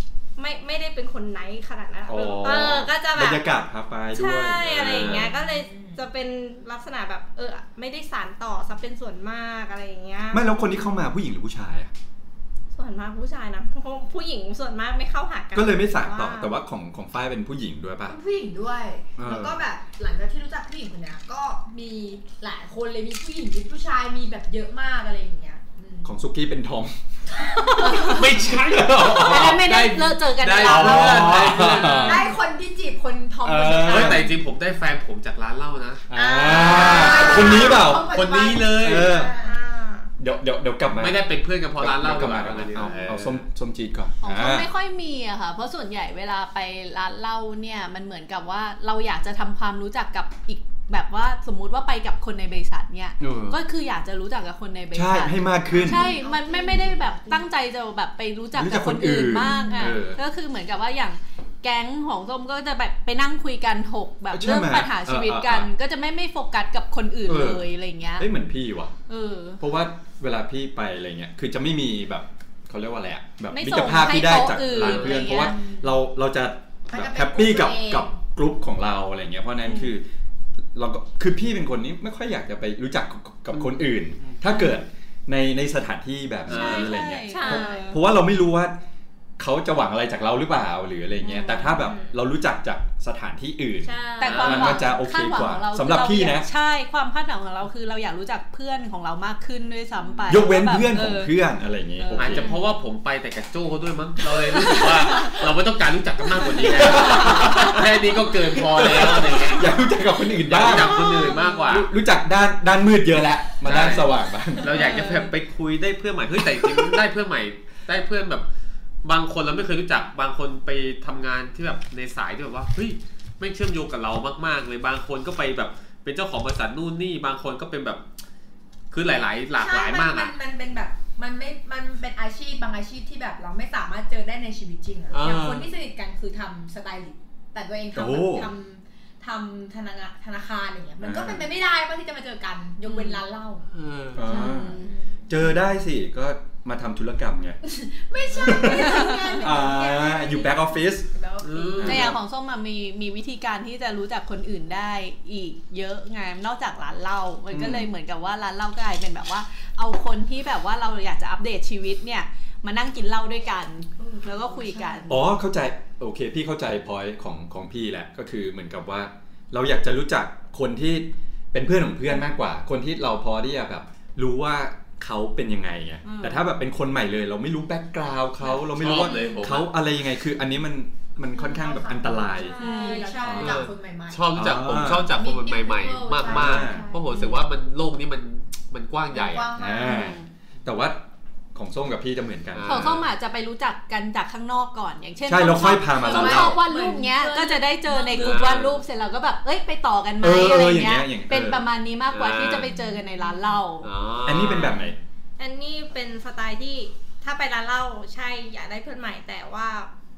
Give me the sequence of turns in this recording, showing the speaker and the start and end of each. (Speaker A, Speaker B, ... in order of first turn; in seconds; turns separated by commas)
Speaker A: 0.4-3.5, Speaker B: 2.1-5.3, Speaker C: 2.4-2.8, Speaker A: 4.1-10.4, Speaker C: 4.7-5.3, Speaker D: 5.0-6.0, Speaker B: 10.3-11.9, Speaker A: 12.7-16.6, Speaker B: 15.5-18.1, Speaker D: 18.1-26.1, Speaker B: 19.2-19.6, Speaker B: 26.0-26.9, Speaker D: 27.4-28.3, Speaker E: 27.8-28.2, Speaker C: 28.0-32.2, Speaker B: 28.5-29.6, Speaker E: 29.2-32.2, Speaker B: 30.6-32.2, Speaker D: 32.0-34.3, Speaker B: 33.4-34.3, Speaker C: 33.8-36.0, Speaker B: 36.1-38.2, Speaker D: 36.1-39.5, Speaker C: 36.7-39.1, Speaker B: 38.8-39.3, Speaker A: 39.4-40.1, Speaker B: 40.2-41.2, Speaker C: 41.0-43.4, Speaker B: 41.8-44.7, Speaker E: 44.2-68.3, Speaker B: 53.2-53.6, Speaker B: 54.9-56.0, Speaker D: 55.6-57.4, Speaker B: 58.5-60.2, Speaker D: 59.4-60.0, Speaker B: 64.3-65.7, Speaker B: 67.2-68.9, Speaker E: 69.1-69.6, Speaker B: 69.6-80.0, Speaker E: 73.5-75.5, Speaker C: 74.7-75.2, Speaker D: 75.3-76.0, Speaker D: 76.9-78.2, Speaker E: 79.6-79.9, Speaker B: 80.7-88.8, Speaker C: 86.5-86.9, Speaker E: 86.5-88.0, Speaker A: 86.8-88.0, Speaker B: 89.4-96.5, Speaker E: 91.2-91.8, Speaker A: 91.8-92.1, Speaker A: 93.8-94.5, Speaker E: 94.2-101.3, Speaker C: 94.2-94.8, Speaker B: 100.3-102.5, Speaker E: 102.0-102.5, Speaker C: 102.1-109.8, Speaker B: 106.6-108.0, Speaker B: 108.5-114.8, Speaker C: 110.5-111.9, Speaker C: 113.6-118.4, Speaker E: 114.6-115.3, Speaker C: 119.0-128.0, Speaker C: 128.9-130.3, Speaker D: 129.6-143.7, Speaker C: 135.1-135.7, Speaker B: 137.9-138.5, Speaker B: 141.0-141.5, Speaker E: 142.8-143.1, Speaker C: 143.7-144.2, Speaker B: 144.1-144.7, Speaker E: 144.3-144.9, Speaker D: 144.3-145.2, Speaker B: 145.3-147.6, Speaker D: 147.7-152.1, Speaker B: 148.4-151.1, Speaker E: 148.6-149.4, Speaker C: 151.4-152.1, Speaker B: 151.8-152.2, Speaker E: 151.8-165.2, Speaker B: 157.5-157.9, Speaker D: 164.0-165.3, Speaker B: 165.1-182.6, Speaker D: 178.4-179.3, Speaker C: 178.8-179.7, Speaker A: 178.9-179.4, Speaker D: 181.3-187.3, Speaker A: 182.4-183.4, Speaker E: 182.6-183.2, Speaker B: 183.2-183.6, Speaker C: 183.4-189.5, Speaker B: 184.3-185.1, Speaker B: 186.2-186.8, Speaker D: 189.1-190.1, Speaker B: 189.6-193.0, Speaker E: 189.8-190.2, Speaker C: 192.5-193.0, Speaker E: 192.7-203.9, Speaker B: 195.2-196.6, Speaker D: 195.9-198.6, Speaker C: 198.2-198.8, Speaker B: 200.2-201.7, Speaker C: 202.1-202.7, Speaker D: 202.7-203.3, Speaker C: 203.8-204.8, Speaker B: 204.2-205.0, Speaker A: 205.4-209.9